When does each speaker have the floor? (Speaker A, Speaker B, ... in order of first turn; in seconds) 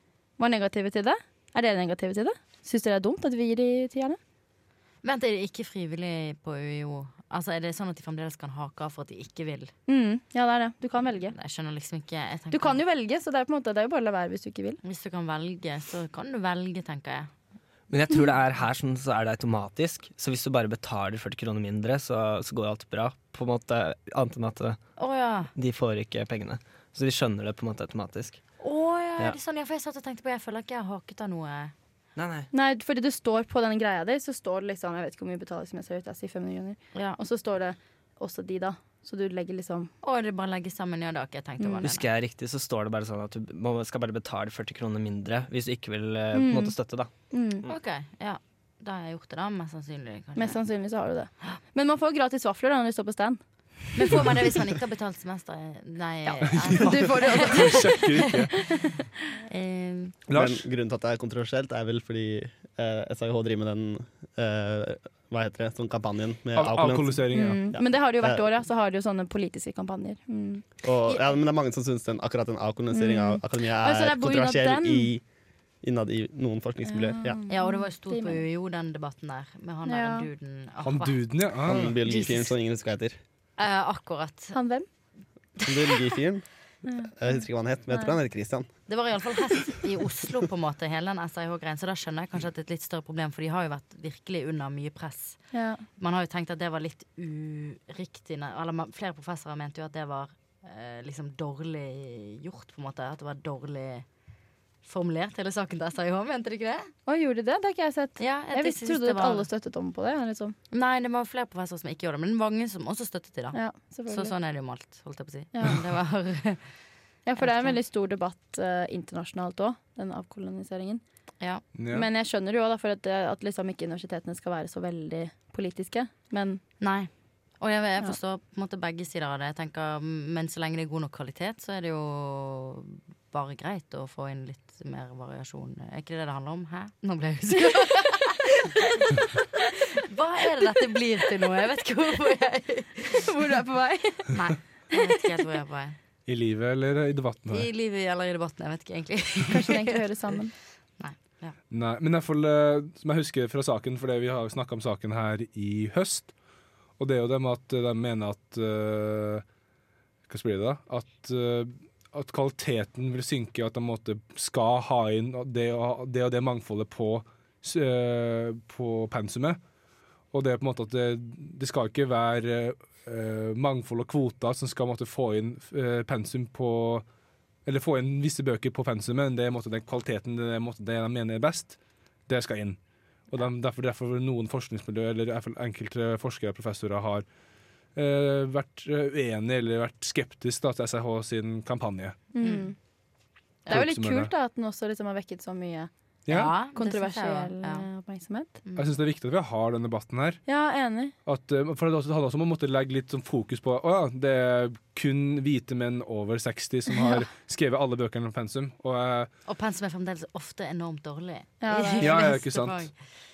Speaker A: 0.4-4.2, 9.9-11.3, 12.5-14.8, 32.5-39.9, 41.6-41.8, 46.3-46.8, 47.3-47.6, 50.4-53.4, 56.3-58.9, 67.3-70.6, 72.9-75.1, 76.8-78.4, 79.8-80.3, 84.5-84.8, 86.8-87.1, 95.5-95.8, 107.1-110.5, 113.5-114.3, 115.5-115.8, 117.2-121.0, 121.9-126.6, 137.7-139.0, 143.1-144.4, 144.9-145.2, 149.5-150.5, 192.3-192.7, 193.7-198.6, 200.4-201.1, 206.9-207.2, 211.6-212.4
Speaker B: 5.0-9.7, 11.3-12.8, 14.8-17.3, 25.0-25.5, 28.6-31.7, 36.9-37.2, 40.0-42.1, 47.7-50.6, 53.9-58.4, 59.5-60.2, 77.5-81.2, 82.0-82.5, 83.6-84.5, 85.6-86.1, 88.9-95.4, 96.0-104.0, 104.8-106.9, 108.2-109.5, 110.7-116.6, 117.4-117.8, 126.8-127.1, 127.6-143.3, 144.3-146.0, 147.5-150.0, 151.0-151.5, 192.4-192.7, 196.3-197.9, 209.5-212.9
Speaker C: 17.9-24.8, 25.5-28.4, 32.1-32.5, 41.8-47.1
Speaker D: 56.4-58.5, 60.3-60.6, 66.5-67.6, 80.8-81.9, 121.7-122.1, 146.3-147.7, 151.7-156.3, 157.0-159.4, 160.3-169.6, 170.3-177.0, 177.7-181.8, 182.3-182.8, 183.3-187.2, 187.9-192.2, 193.7-194.3, 196.2-196.5, 198.8-200.4, 201.2-209.3, 212.0-212.9
Speaker E: 60.3-68.4, 70.8-75.2, 75.8-77.4, 81.6-83.2, 85.6-86.4, 87.2-88.7